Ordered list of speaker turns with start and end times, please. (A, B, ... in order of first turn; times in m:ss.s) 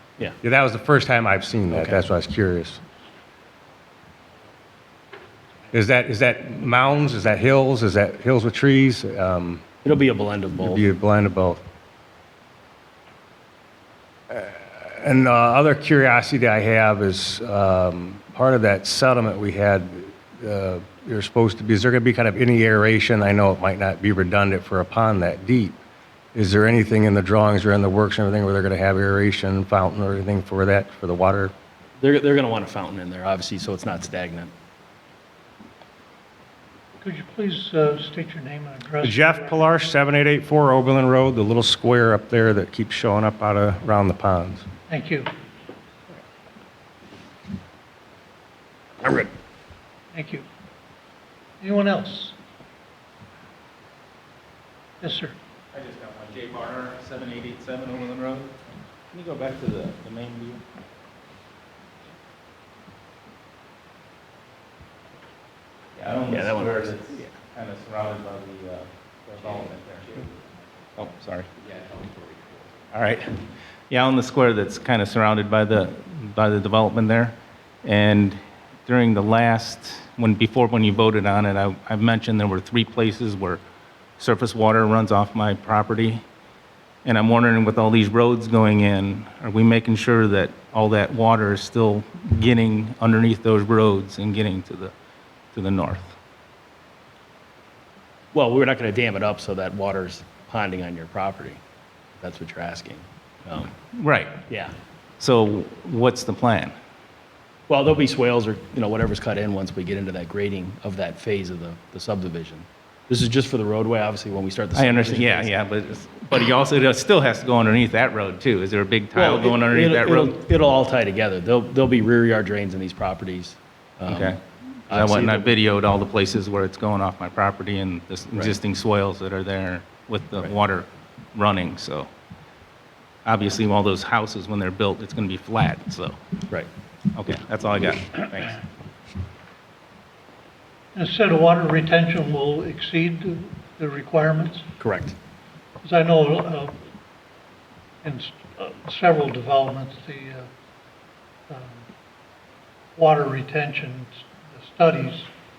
0:00.4-0:02.8 A
0:01.7-0:02.0 B
0:05.7-0:09.6 A
0:09.8-0:10.8 B
0:10.6-0:11.6 A
0:14.3-0:25.8 A
0:26.3-0:31.5 A
0:32.0-0:34.5 B
0:37.0-0:39.7 C
0:39.0-0:44.6 A
0:44.9-0:45.3 C
0:49.0-0:49.3 B
0:50.1-0:50.4 C
0:51.6-0:52.4 C
0:55.0-0:55.4 C
0:55.7-0:58.5 D
0:59.1-1:00.6 D
1:06.0-1:10.3 D
1:06.3-1:07.3 B
1:11.0-1:11.5 D
1:12.9-1:23.6 D
1:24.2-1:26.2 D
1:27.0-1:34.9 D
1:35.5-1:36.2 D
1:38.3-1:41.6 B
1:42.2-1:43.7 B
1:44.0-1:44.4 D
1:44.5-1:44.7 B
1:45.2-1:46.8 D
1:47.7-1:55.5 B
1:54.8-2:00.3 D
1:59.1-2:05.6 B
2:04.1-2:12.1 D
2:13.2-2:16.2 D
2:17.2-2:18.6 D
2:20.9-2:24.7 C
2:24.8-2:25.2 B
2:25.8-2:26.8 C
2:28.0-2:30.5 C
2:31.5-2:31.8 C
2:33.0-2:35.3 C